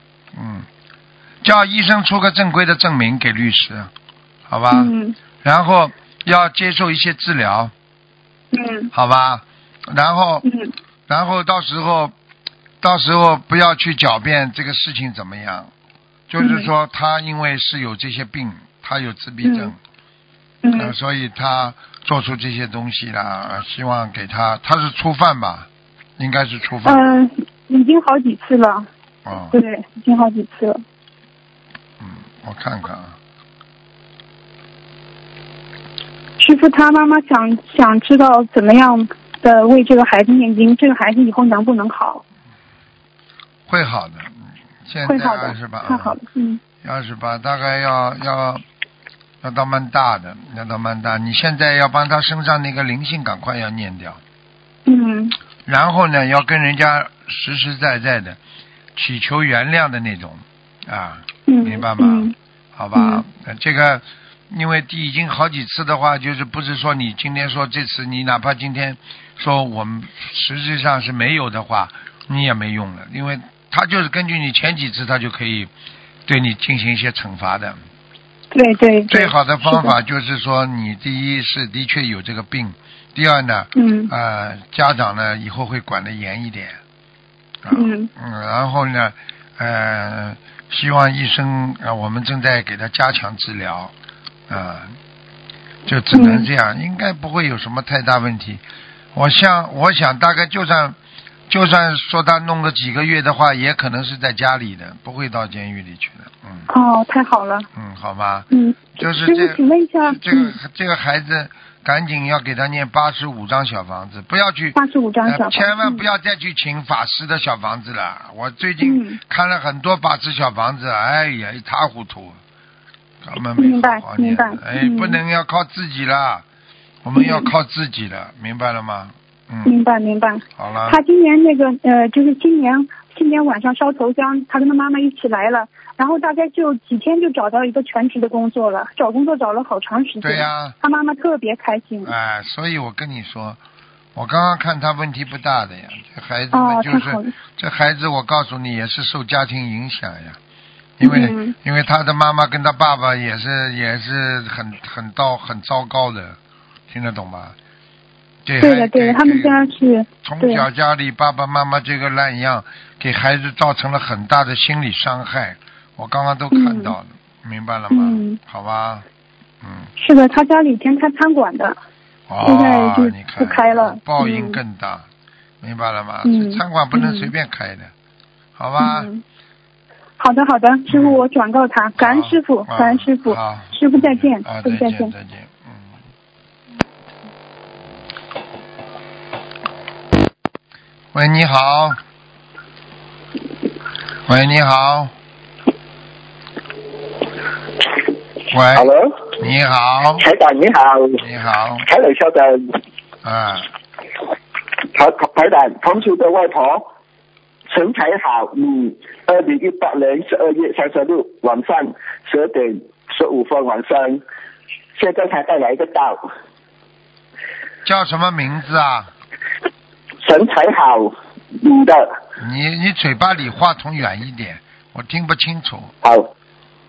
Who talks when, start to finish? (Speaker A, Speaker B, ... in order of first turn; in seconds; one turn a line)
Speaker A: 0.3-0.7
Speaker A: 1.4-3.9
Speaker A: 4.5-7.7
Speaker B: 4.7-5.2
Speaker B: 8.5-8.9
Speaker A: 8.9-10.5
Speaker B: 10.4-10.7
Speaker A: 11.1-12.1
Speaker A: 12.8-15.7
Speaker A: 16.3-19.8
Speaker B: 16.4-16.7
Speaker B: 19.4-19.7
Speaker B: 20.6-20.9
Speaker A: 20.8-27.2
Speaker B: 26.9-28.9
Speaker A: 29.3-29.6
Speaker B: 29.5-30.8
Speaker A: 32.0-33.2
Speaker B: 36.4-42.2
Speaker A: 43.7-46.2
Speaker B: 45.1-46.6
Speaker A: 46.8-48.6
Speaker A: 49.4-54.2
Speaker B: 54.9-55.4
Speaker A: 55.7-58.4
Speaker A: 59.0-75.7
Speaker B: 61.5-62.3
Speaker B: 63.0-63.2
Speaker A: 76.3-77.8
Speaker B: 78.5-79.9
Speaker A: 79.1-86.8
Speaker B: 83.8-84.1
Speaker A: 87.6-93.9
Speaker B: 87.7-88.1
Speaker A: 94.5-95.0
Speaker A: 95.9-98.6
Speaker B: 96.1-96.5
Speaker A: 99.1-101.0
Speaker A: 101.5-106.7
Speaker B: 106.7-107.7
Speaker A: 107.8-108.5
Speaker B: 108.5-110.6
Speaker A: 109.0-122.4
Speaker B: 114.8-116.0
Speaker B: 118.8-119.2
Speaker A: 123.2-126.5
Speaker B: 123.6-125.2
Speaker A: 127.0-129.8
Speaker B: 127.2-127.5
Speaker B: 129.7-142.1
Speaker A: 130.6-131.0
Speaker A: 140.2-140.8
Speaker A: 142.0-143.6
Speaker A: 144.2-150.4
Speaker B: 146.5-147.3
Speaker A: 151.0-156.4
Speaker B: 151.0-151.6
Speaker A: 156.9-157.6
Speaker A: 158.4-159.7
Speaker B: 158.6-160.7
Speaker A: 160.2-169.1
Speaker B: 166.5-166.9
Speaker B: 167.9-168.4
Speaker A: 169.6-169.9
Speaker B: 170.0-171.8
Speaker A: 172.3-175.1
Speaker B: 172.4-174.6
Speaker A: 175.6-177.9
Speaker B: 176.2-177.3
Speaker A: 178.6-179.1
Speaker B: 178.8-179.2
Speaker B: 180.2-185.1
Speaker A: 180.9-181.2
Speaker A: 182.0-186.0
Speaker A: 191.1-192.0
Speaker A: 194.3-195.1
Speaker A: 198.5-200.3
Speaker C: 198.7-199.3
Speaker C: 200.2-201.2
Speaker A: 201.2-201.9
Speaker C: 201.8-202.8
Speaker A: 203.2-203.7
Speaker C: 204.9-206.8
Speaker C: 207.7-214.2
Speaker C: 214.9-216.3
Speaker A: 217.8-219.1
Speaker C: 220.2-222.1
Speaker A: 222.4-225.9
Speaker C: 226.0-226.3